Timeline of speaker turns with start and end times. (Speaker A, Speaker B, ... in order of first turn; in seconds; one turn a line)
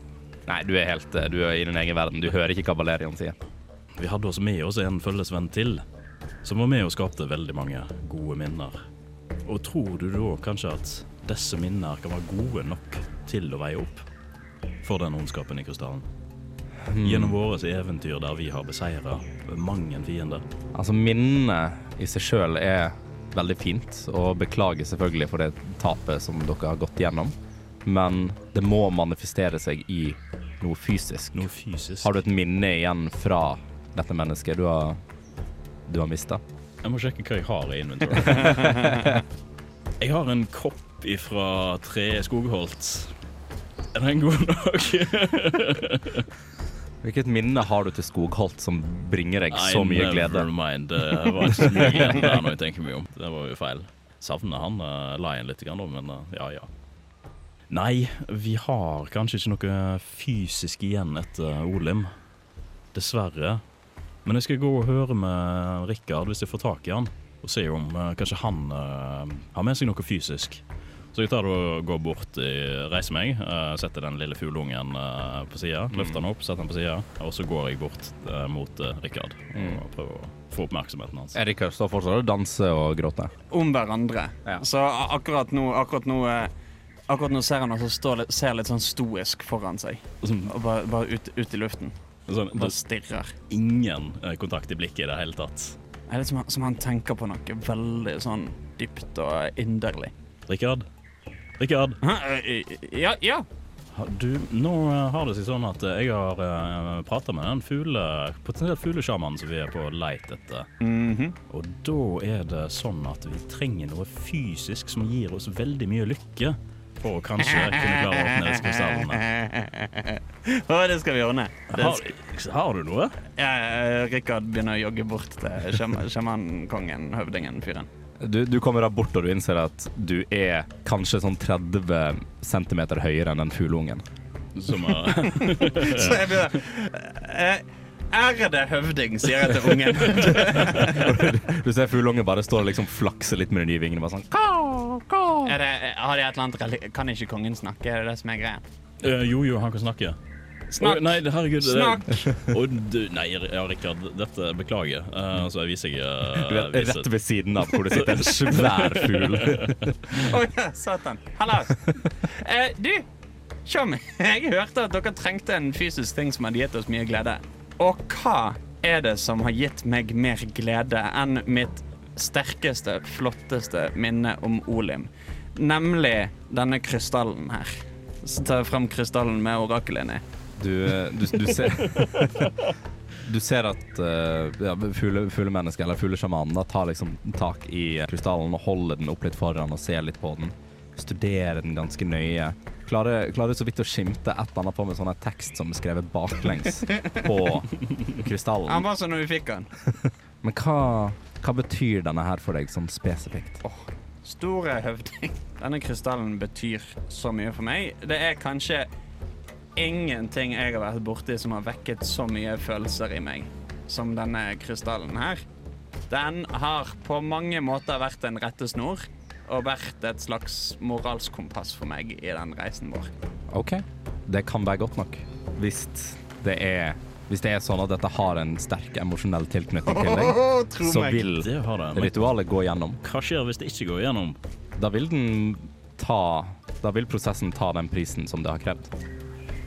Speaker A: 0.5-3.4
Speaker B: 4.0-5.8
Speaker B: 6.4-8.8
Speaker B: 9.4-14.1
Speaker B: 14.8-16.1
Speaker A: 16.9-17.4
Speaker B: 17.0-20.4
Speaker A: 20.7-31.5
Speaker B: 31.4-32.1
Speaker A: 32.0-35.0
Speaker A: 35.9-36.4
Speaker B: 36.8-39.1
Speaker B: 40.0-43.2
Speaker B: 43.9-46.3
Speaker A: 47.0-50.5
Speaker B: 49.5-56.7
Speaker A: 51.2-52.4
Speaker B: 57.7-62.1
Speaker B: 62.9-63.6
Speaker B: 64.2-70.6
Speaker B: 71.1-81.4
Speaker A: 75.9-76.2
Speaker A: 79.5-79.8
Speaker A: 81.3-83.3
Speaker C: 83.5-86.5
Speaker C: 87.1-92.0
Speaker B: 90.2-90.5
Speaker B: 92.3-92.8
Speaker C: 92.5-93.3
Speaker B: 93.5-95.8
Speaker C: 96.1-100.1
Speaker B: 100.5-100.9
Speaker B: 101.6-102.0
Speaker C: 102.0-103.5
Speaker B: 103.9-110.7
Speaker C: 110.8-111.4
Speaker B: 111.5-119.3
Speaker C: 117.4-122.0
Speaker B: 121.7-123.2
Speaker C: 123.4-127.9
Speaker A: 128.2-134.0
Speaker B: 134.6-136.4
Speaker C: 135.4-141.2
Speaker A: 140.8-145.6
Speaker C: 145.5-148.6
Speaker B: 149.0-150.2
Speaker C: 150.7-152.3
Speaker B: 150.8-157.1
Speaker A: 156.4-159.9
Speaker B: 157.7-159.8
Speaker C: 160.1-163.1
Speaker C: 163.7-180.2
Speaker A: 180.6-182.7
Speaker A: 183.2-198.9
Speaker C: 198.7-199.7
Speaker A: 200.4-203.6
Speaker C: 203.6-208.9
Speaker C: 209.8-215.4
Speaker C: 216.1-223.1
Speaker A: 223.5-233.0
Speaker C: 229.9-231.3
Speaker B: 231.2-232.3
Speaker B: 233.0-234.4
Speaker A: 234.8-238.9